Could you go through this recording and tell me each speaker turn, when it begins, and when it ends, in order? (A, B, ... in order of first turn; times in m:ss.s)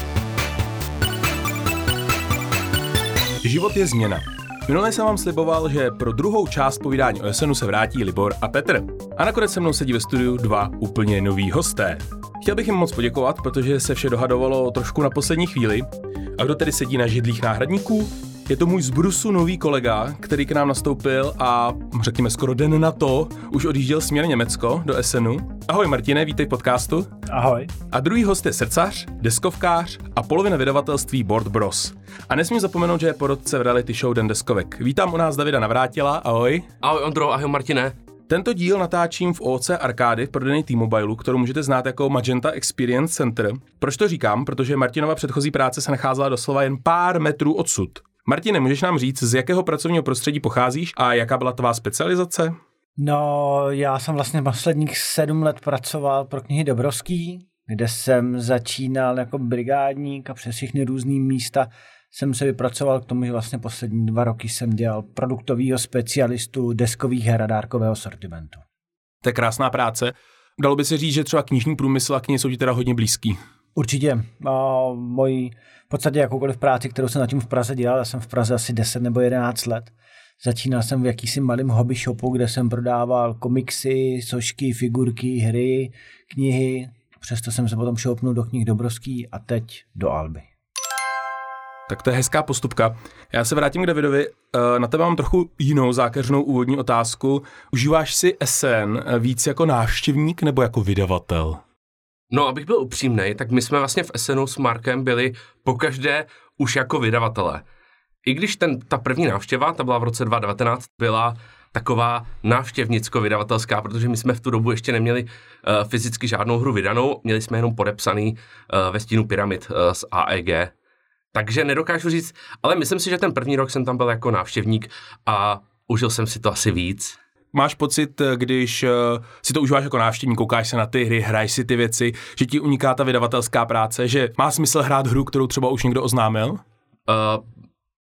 0:03.4-0:27.1 A
0:27.3-0:27.7 B
0:27.9-0:36.7 A
0:36.8-0:38.0 C
0:38.3-0:52.6 A
0:53.0-1:08.6 B
1:09.2-1:13.4 A
1:13.8-1:30.5 B
1:31.9-1:41.6 A
1:42.3-1:47.6 C
1:48.2-2:00.7 C
2:01.3-2:07.2 C
2:07.5-2:16.6 A
2:17.1-2:17.5 C